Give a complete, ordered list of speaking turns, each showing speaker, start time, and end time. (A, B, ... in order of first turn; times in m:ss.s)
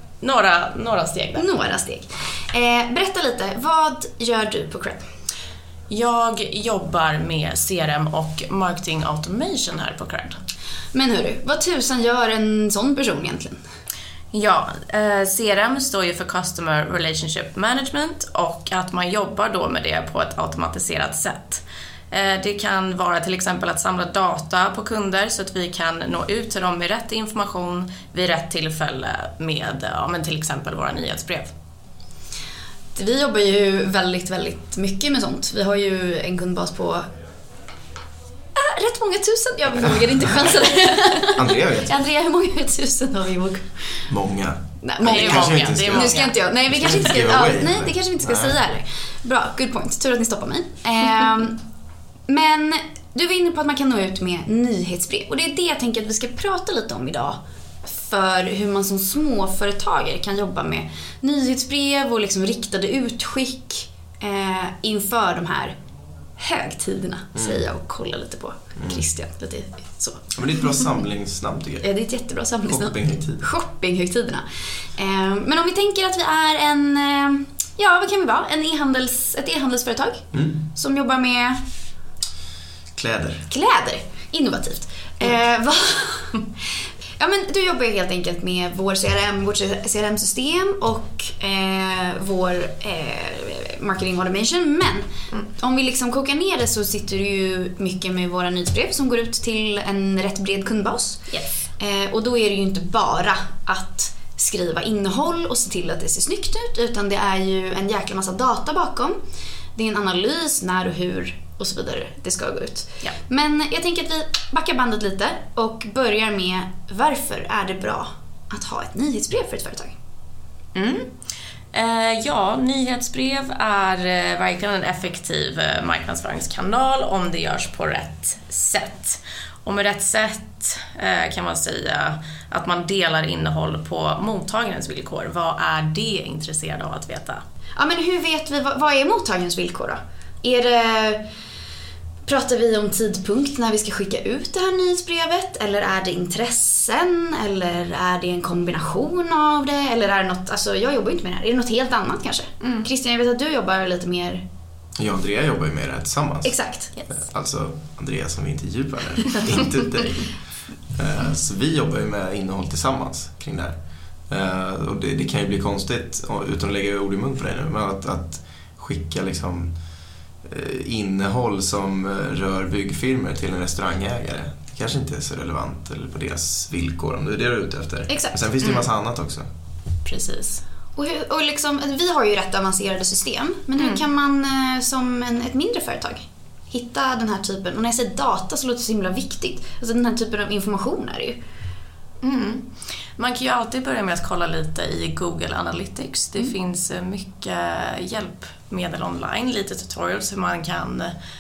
0:00.2-0:01.5 A
0:01.4-0:05.1 B
0:05.9-0:10.4 A
0:10.9-0:13.6 B
0:14.3-0:31.5 A
0:33.0-0:37.1 B
0:38.6-0:44.1 B
0:41.2-0:41.9 C
0:44.1-0:48.6 C
0:44.8-0:51.6 B
0:45.0-0:46.4 A
0:52.3-1:05.8 B
1:06.4-1:10.3 B
1:07.3-1:07.6 C
1:08.8-1:09.0 C
1:10.3-1:11.9 C
1:11.8-1:21.6 B
1:12.7-1:13.4 C
1:20.3-1:20.6 C
1:23.0-1:23.5 C
1:23.5-1:26.4 B
1:27.2-1:41.2 B
1:41.8-1:49.2 B
1:49.8-2:00.0 B
2:00.8-2:01.1 A
2:01.7-2:17.4 A
2:17.8-2:21.2 B
2:22.3-2:34.4 B
2:32.6-2:32.9 A
2:35.0-2:36.6 C
2:36.4-2:36.9 B
2:37.1-2:40.4 C
2:40.9-2:43.8 C
2:44.3-2:49.7 C
2:50.4-2:59.5 C
2:58.1-2:58.4 B
3:00.0-3:00.6 A
3:01.0-3:11.4 B
3:12.2-3:21.2 A